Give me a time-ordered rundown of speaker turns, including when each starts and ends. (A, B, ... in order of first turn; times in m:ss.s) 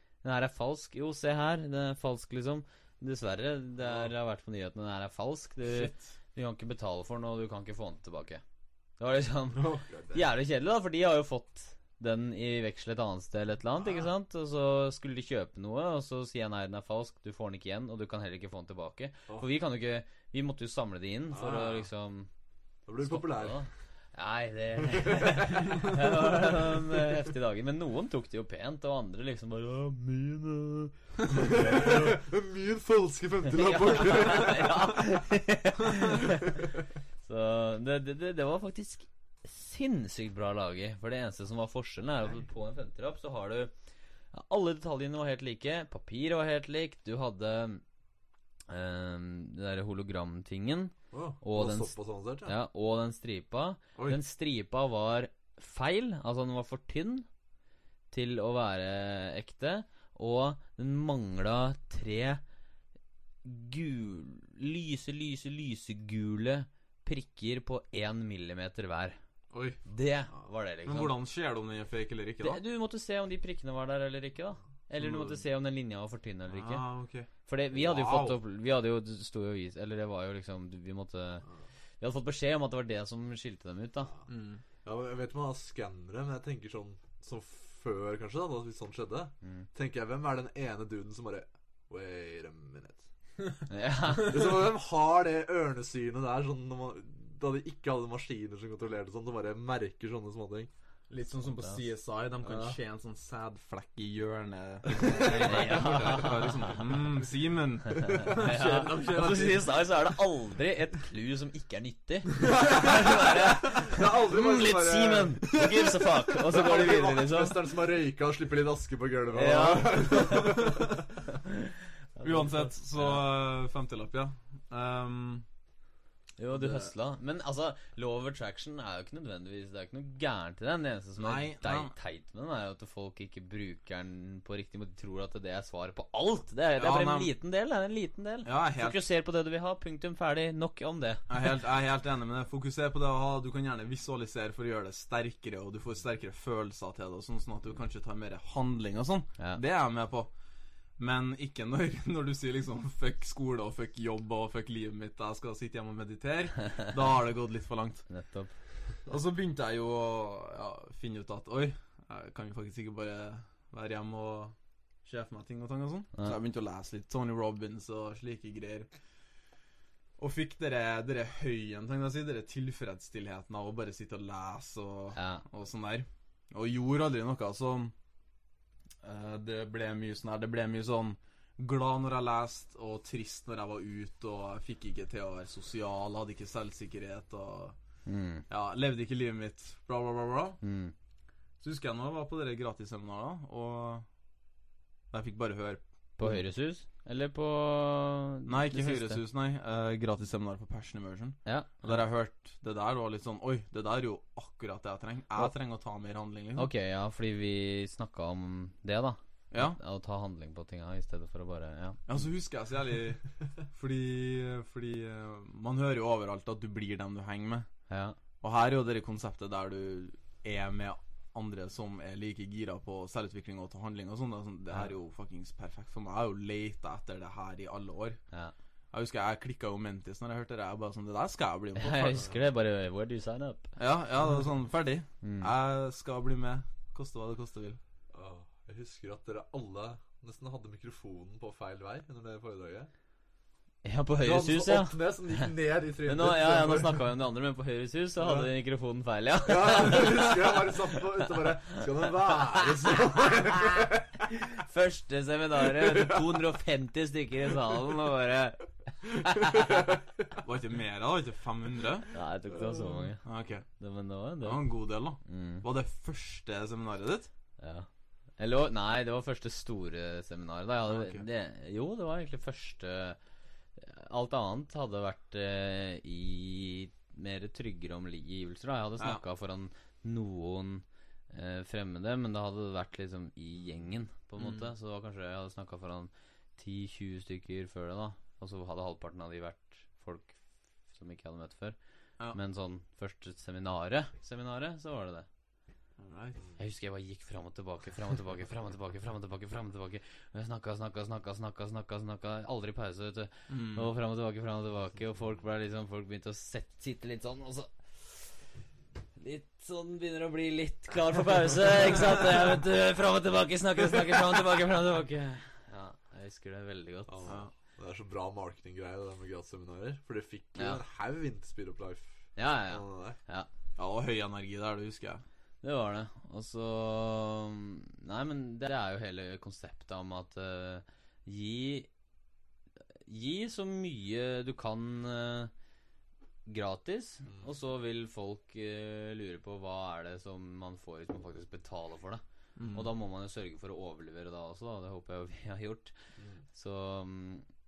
0:00.2-0:08.4 A
0:03.8-0:04.1 B
0:05.6-0:06.1 C
0:09.0-0:22.3 A
0:09.5-0:10.3 B
0:13.8-0:14.1 B
0:21.3-0:21.9 B
0:22.9-0:23.6 B
0:23.0-0:32.0 A
0:24.8-0:27.0 B
0:31.3-0:35.0 B
0:33.5-0:43.7 A
0:44.3-0:47.8 A
0:48.7-0:57.2 A
0:51.1-0:52.5 B
0:58.1-1:02.4 A
1:03.4-1:09.2 A
1:09.5-1:09.8 C
1:09.8-1:11.2 A
1:10.8-1:12.6 C
1:12.4-1:16.8 A
1:15.0-1:15.4 C
1:16.5-1:18.4 C
1:17.4-1:21.4 A
1:22.0-1:24.1 A
1:24.3-1:24.6 C
1:24.8-1:33.1 B
1:33.7-1:34.6 A
1:34.2-1:40.7 B
1:41.1-1:49.9 C
1:42.4-1:42.8 B
1:45.0-1:46.3 B
1:45.1-1:46.8 A
1:47.9-1:57.6 A
1:52.5-1:55.7 B
1:56.3-2:01.0 B
1:59.3-2:00.7 A
2:00.5-2:00.9 C
2:01.4-2:03.2 A
2:02.2-2:05.4 C
2:06.4-2:21.3 A
2:06.5-2:06.9 C
2:11.2-2:11.9 C
2:16.8-2:17.3 C
2:18.4-2:19.0 C
2:21.3-2:30.3 C
2:31.0-2:38.0 C
2:38.1-2:38.5 A
2:39.0-2:48.9 C
2:50.2-2:57.9 C
2:55.1-2:55.4 A
2:59.0-3:07.8 C
3:08.0-3:08.4 A
3:08.5-3:10.6 C
3:10.6-3:10.9 A
3:11.6-3:14.0 C
3:15.1-3:16.4 C
3:16.2-3:19.2 A
3:18.4-3:26.7 C
3:21.4-3:22.0 A
3:26.6-3:32.0 A
3:29.5-3:29.8 C
3:32.1-3:37.7 C
3:37.9-3:38.2 A
3:38.4-3:48.2 C
3:48.9-3:52.3 C
3:51.8-3:53.7 A
3:53.8-3:57.8 C
3:55.2-3:55.5 A
3:58.1-4:02.9 B
4:03.8-4:05.5 A
4:04.2-4:07.0 B
4:06.1-4:19.8 A
4:08.2-4:08.5 B
4:09.4-4:14.3 B
4:15.6-4:16.4 B
4:19.2-4:20.1 B
4:20.4-4:22.1 C
4:22.1-4:23.2 A
4:22.5-4:23.1 B
4:23.2-4:23.6 C
4:23.8-4:25.6 A
4:24.4-4:27.3 C
4:27.6-4:33.2 A
4:30.9-4:31.2 C
4:33.8-4:50.4 A
4:44.4-4:44.7 C
4:50.9-4:51.8 A
4:52.3-4:55.3 A
4:56.0-4:56.4 C
4:56.6-5:08.4 A
5:03.5-5:03.9 C
5:09.2-5:17.3 A
5:17.1-5:23.2 B
5:22.4-5:23.5 A
5:23.8-5:25.2 C
5:25.6-5:31.9 A
5:33.0-5:35.5 A
5:36.4-5:42.2 A
5:42.6-5:42.9 C
5:42.7-5:45.9 A
5:46.5-5:47.4 A